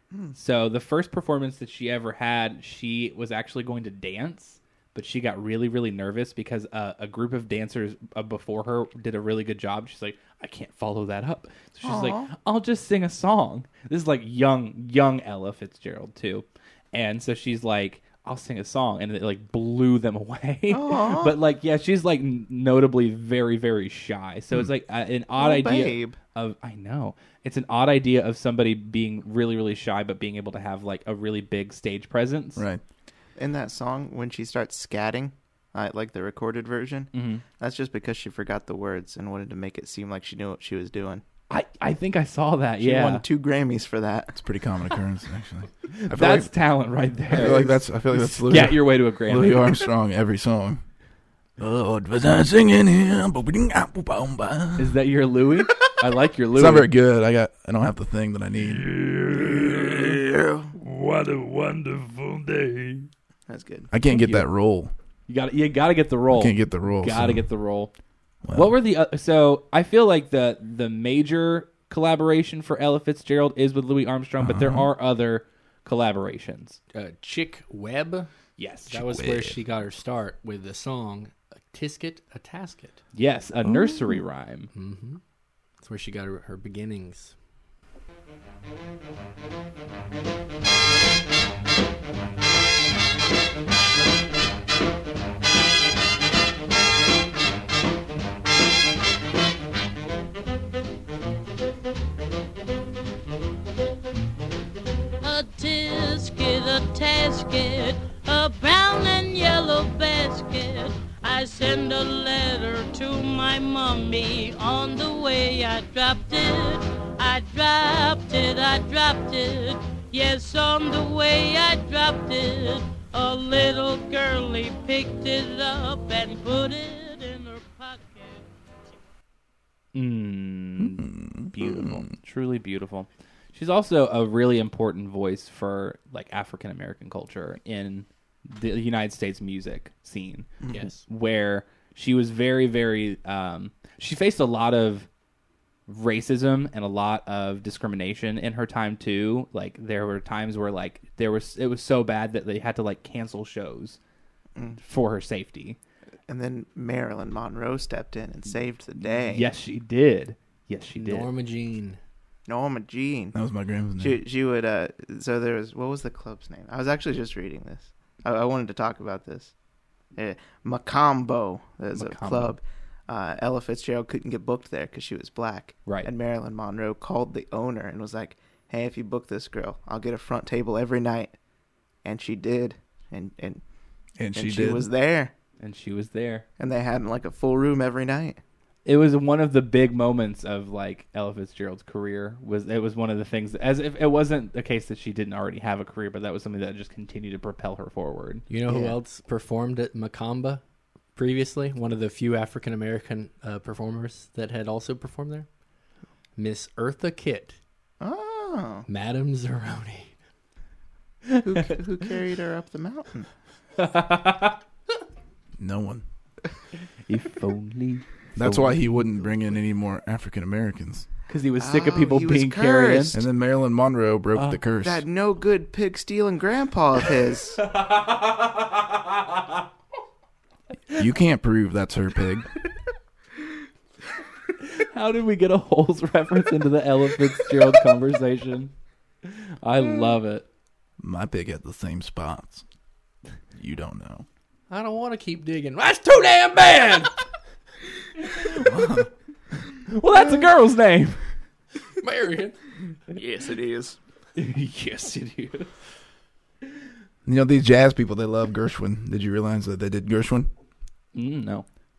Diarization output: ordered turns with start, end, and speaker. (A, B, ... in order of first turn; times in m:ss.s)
0:00.1-0:00.4 A
0:00.4-0:32.6 B
0:11.8-0:12.3 A
0:20.7-0:21.4 A
0:25.4-0:26.2 A
0:32.6-0:32.8 C
0:33.4-0:41.2 A
0:37.1-0:37.4 B
0:41.5-0:43.2 B
0:42.8-0:44.4 A
0:44.4-0:46.5 C
0:45.9-0:49.8 B
0:47.3-0:50.8 C
0:51.6-0:55.0 C
0:54.8-0:56.9 B
0:56.6-0:58.8 C
0:58.7-1:00.0 B
1:00.0-1:00.7 A
1:00.7-1:03.1 B
1:03.5-1:03.9 A
1:03.9-1:04.9 C
1:04.1-1:04.5 B
1:05.3-1:07.9 B
1:06.3-1:07.4 C
1:08.4-1:08.7 C
1:08.5-1:16.8 B
1:14.4-1:14.9 C
1:16.9-1:18.3 D
1:18.6-1:19.1 B
1:18.9-1:23.0 D
1:19.1-1:19.6 C
1:23.1-1:24.7 B
1:23.6-1:24.2 C
1:24.7-1:25.2 D
1:25.8-1:27.4 D
1:45.2-2:08.5 E
2:09.9-2:25.1 B
2:10.8-2:12.1 C
2:20.7-2:21.0 D
2:25.9-2:34.0 B
2:34.8-2:35.8 B
2:36.3-2:39.4 A
2:39.0-2:41.3 B
2:41.0-2:42.0 D
2:42.5-2:43.4 A
2:43.3-2:44.2 C
2:44.0-2:49.5 A
2:50.1-3:01.4 A
2:51.9-2:52.6 B
2:55.9-2:56.1 B
3:02.0-3:03.6 A
3:04.2-3:04.9 C
3:04.3-3:05.3 A
3:05.6-3:06.4 B
3:06.6-3:08.4 A
3:08.8-3:18.4 B
3:18.5-3:20.6 D
3:18.6-3:19.0 A
3:21.2-3:25.5 D
3:26.4-3:27.6 D
3:28.0-3:28.9 A
3:28.9-3:30.1 D
3:31.3-3:31.7 B
3:31.4-3:33.3 A
3:33.8-3:34.6 B
3:35.6-3:36.0 C
3:37.1-3:39.4 B
3:38.4-3:41.1 C
3:41.3-3:43.2 B
3:41.6-3:43.2 A
3:43.1-3:45.0 C
3:44.4-3:44.6 B
3:44.8-3:47.6 A
3:47.6-3:49.5 B
3:51.0-3:52.5 C
3:54.6-3:58.7 B
3:59.2-4:00.5 B
4:01.0-4:02.6 C
4:03.5-4:04.2 C
4:04.7-4:07.1 D
4:08.2-4:08.7 B
4:08.5-4:09.1 C
4:09.9-4:11.3 B
4:12.0-4:12.6 D
4:13.1-4:14.0 A
4:14.4-4:15.7 B
4:17.2-4:20.5 C
4:21.1-4:21.6 B